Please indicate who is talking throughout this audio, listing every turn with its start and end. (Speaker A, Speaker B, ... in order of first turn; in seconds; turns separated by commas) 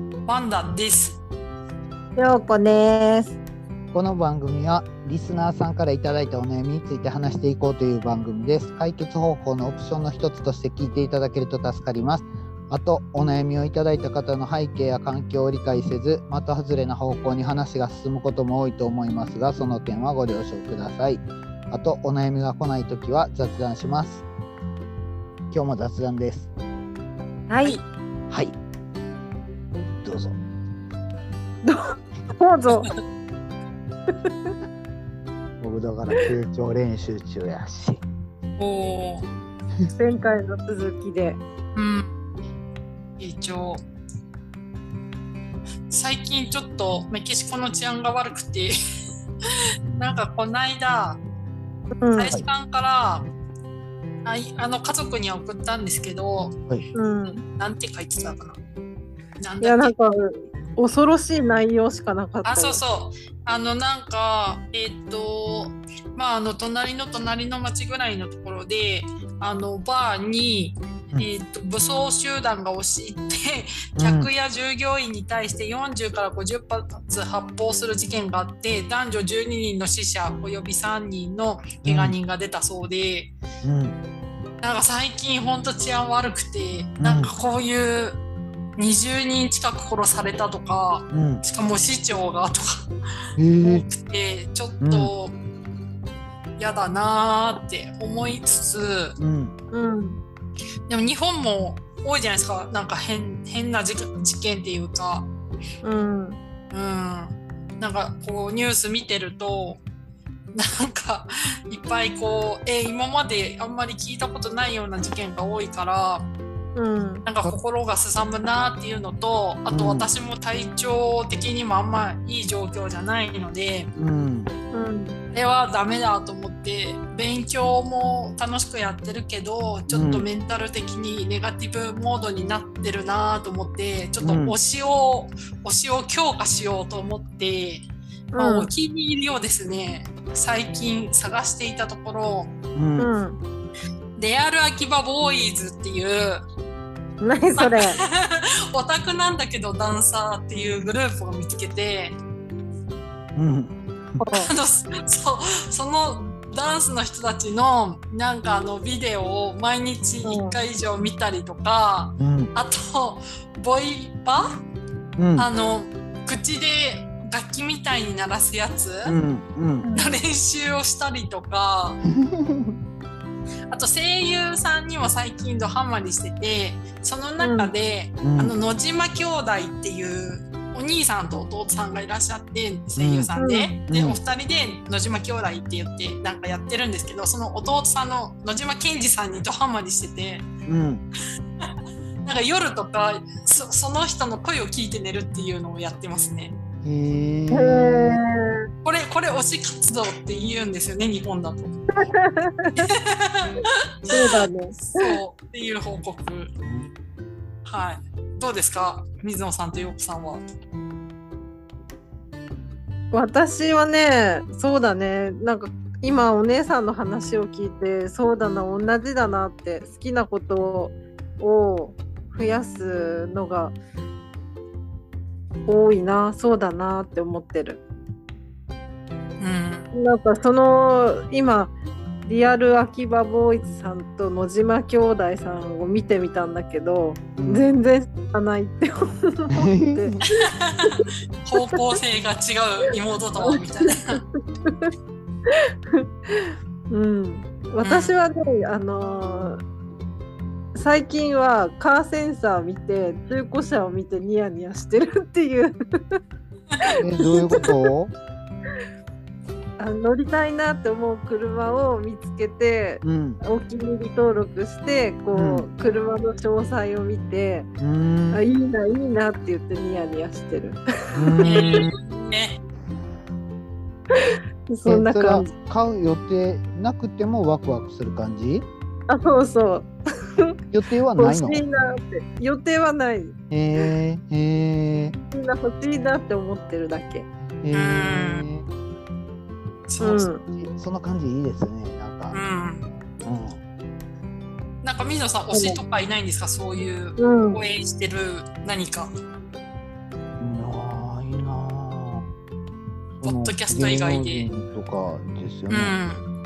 Speaker A: 0.3-1.2, Speaker B: 2.2-3.4, Speaker C: 3.9-24.2, Speaker C: 25.5-26.5, Speaker B: 27.5-27.8, Speaker C: 28.3-28.6, Speaker C: 30.0-30.4, Speaker B: 31.6-32.9, Speaker C: 35.6-38.0, Speaker A: 38.6-39.3, Speaker B: 40.0-41.4, Speaker A: 41.7-42.1, Speaker A: 43.2-43.8, Speaker A: 45.9-48.7, Speaker C: 49.8-50.2, Speaker A: 50.0-51.2, Speaker B: 52.0-52.4, Speaker A: 52.1-53.3, Speaker A: 54.2-56.6, Speaker B: 56.9-57.4, Speaker A: 57.5-58.6, Speaker A: 59.4-59.9, Speaker B: 59.6-62.8, Speaker A: 62.5-83.3, Speaker C: 74.0-74.3, Speaker C: 81.8-82.2, Speaker C: 83.6-84.0, Speaker A: 84.6-88.2, Speaker C: 87.0-87.3, Speaker A: 88.8-92.9, Speaker C: 91.1-91.4, Speaker C: 93.4-93.8, Speaker A: 93.6-95.3, Speaker C: 94.8-95.1, Speaker A: 96.6-99.2, Speaker C: 99.2-99.5, Speaker B: 99.7-100.2, Speaker A: 100.9-105.3, Speaker B: 105.8-106.4, Speaker A: 106.7-109.8, Speaker A: 110.5-116.3, Speaker B: 116.8-117.2, Speaker A: 117.2-123.9, Speaker C: 119.7-120.1, Speaker C: 124.0-124.5, Speaker B: 124.7-125.2, Speaker A: 125.3-142.5, Speaker C: 129.9-130.3, Speaker C: 134.2-134.6, Speaker B: 138.3-138.7, Speaker C: 142.8-143.1, Speaker B: 143.0-143.4, Speaker A: 144.2-146.4, Speaker B: 147.2-148.0, Speaker A: 147.6-152.2, Speaker C: 153.3-154.2, Speaker B: 154.2-154.5, Speaker A: 154.3-164.5, Speaker B: 160.2-160.6, Speaker C: 162.2-162.5, Speaker C: 165.2-165.5, Speaker A: 165.4-169.2, Speaker C: 169.1-169.9, Speaker B: 169.8-170.2, Speaker A: 169.9-172.0, Speaker C: 172.1-172.8, Speaker A: 173.7-190.5, Speaker B: 177.4-177.7, Speaker C: 178.2-178.6, Speaker C: 183.0-183.3, Speaker B: 183.4-183.8, Speaker C: 183.9-184.2, Speaker C: 190.7-191.0, Speaker A: 192.2-196.6, Speaker C: 196.8-198.2, Speaker B: 197.5-198.3, Speaker A: 198.8-201.8, Speaker B: 201.9-202.8, Speaker A: 202.8-206.5, Speaker B: 204.1-205.2, Speaker C: 206.7-206.9, Speaker A: 207.7-210.4, Speaker B: 213.1-223.8, Speaker B: 225.7-227.8, Speaker A: 229.4-229.9, Speaker B: 229.9-231.7, Speaker B: 232.2-240.2, Speaker C: 237.3-237.7, Speaker C: 239.5-240.2, Speaker A: 240.4-244.2, Speaker B: 244.1-244.9, Speaker B: 245.5-249.6, Speaker A: 247.8-248.2, Speaker B: 250.7-256.2, Speaker C: 257.0-258.1, Speaker B: 257.2-257.7, Speaker B: 259.8-267.7, Speaker C: 263.0-263.4, Speaker C: 265.3-265.7, Speaker C: 267.8-268.4, Speaker B: 268.3-271.7, Speaker C: 271.1-271.9, Speaker A: 271.4-272.6, Speaker B: 274.1-275.5, Speaker C: 274.9-278.7, Speaker B: 279.1-280.6, Speaker C: 280.7-281.6, Speaker B: 281.2-283.4, Speaker C: 283.5-285.2, Speaker B: 285.3-287.3, Speaker C: 287.6-288.7, Speaker A: 287.7-288.5, Speaker A: 289.9-290.3, Speaker B: 290.0-290.4, Speaker C: 290.5-292.4, Speaker A: 292.3-292.9, Speaker C: 293.2-293.6, Speaker A: 294.8-299.1, Speaker B: 295.5-295.8, Speaker B: 297.2-297.6, Speaker C: 300.4-302.3, Speaker C: 303.2-306.0, Speaker A: 303.2-304.5, Speaker A: 305.7-306.3